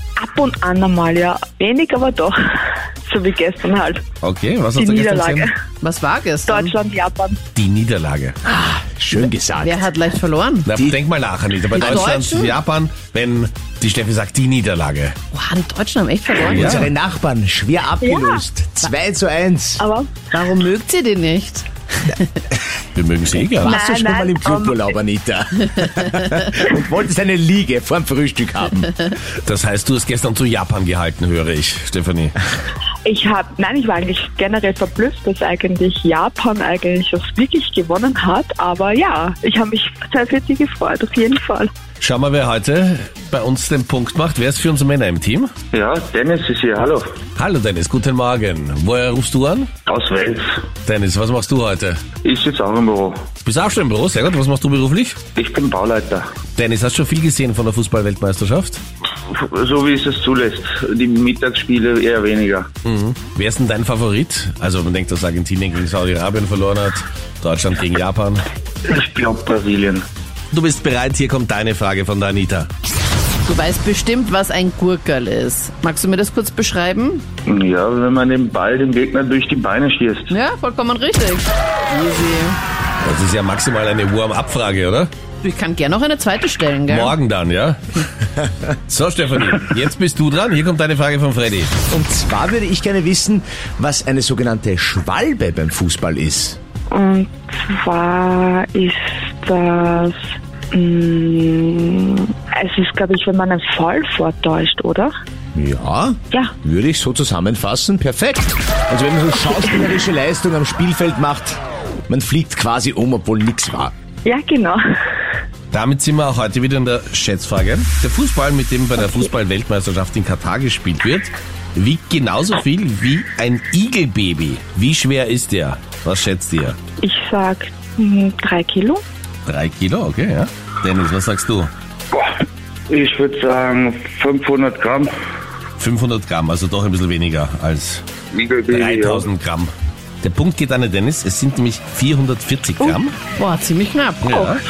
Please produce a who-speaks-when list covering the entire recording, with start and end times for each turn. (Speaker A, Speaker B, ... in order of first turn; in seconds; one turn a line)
Speaker A: 0.2-2.4
Speaker A: 3.1-4.0
Speaker B: 4.2-5.5
Speaker A: 4.8-5.5
Speaker C: 5.8-6.8
Speaker A: 6.5-7.4
Speaker B: 7.5-8.4
Speaker D: 8.4-9.9
Speaker C: 9.6-10.7
Speaker B: 10.7-15.2
Speaker C: 11.7-12.6
Speaker C: 15.3-16.9
Speaker D: 16.5-19.8
Speaker B: 16.5-16.9
Speaker A: 18.0-18.4
Speaker A: 19.8-20.1
Speaker C: 20.3-22.4
Speaker B: 22.9-23.8
Speaker A: 23.6-24.9
Speaker D: 23.6-28.9
Speaker B: 29.4-32.4
Speaker A: 33.0-41.7
Speaker B: 42.0-45.5
Speaker E: 45.7-47.0
Speaker B: 47.4-49.7
Speaker E: 49.9-50.6
Speaker B: 50.9-52.0
Speaker E: 52.2-53.3
Speaker B: 53.4-55.2
Speaker E: 55.4-56.2
Speaker B: 56.5-58.8
Speaker E: 59.3-62.7
Speaker B: 62.8-68.5
Speaker E: 68.8-70.1
Speaker B: 70.5-72.7
Speaker C: 73.4-77.2
Speaker E: 77.5-80.3
Speaker C: 80.3-82.6
Speaker B: 83.0-85.1
Speaker C: 85.4-87.2
Speaker B: 86.9-88.0
Speaker B: 88.9-91.7
Speaker D: 91.9-96.6
Speaker A: 96.9-100.2
Speaker A: 100.7-105.1
Speaker D: 105.5-113.9
Speaker A: 114.2-114.8
Speaker B: 115.7-126.8
Speaker A: 127.0-129.0
Speaker B: 129.5-131.7
Speaker E: 132.9-135.1
Speaker B: 135.8-138.0
Speaker E: 138.3-139.3
Speaker B: 138.7-139.7
Speaker B: 140.2-143.2
Speaker C: 143.4-144.4
Speaker B: 144.2-144.6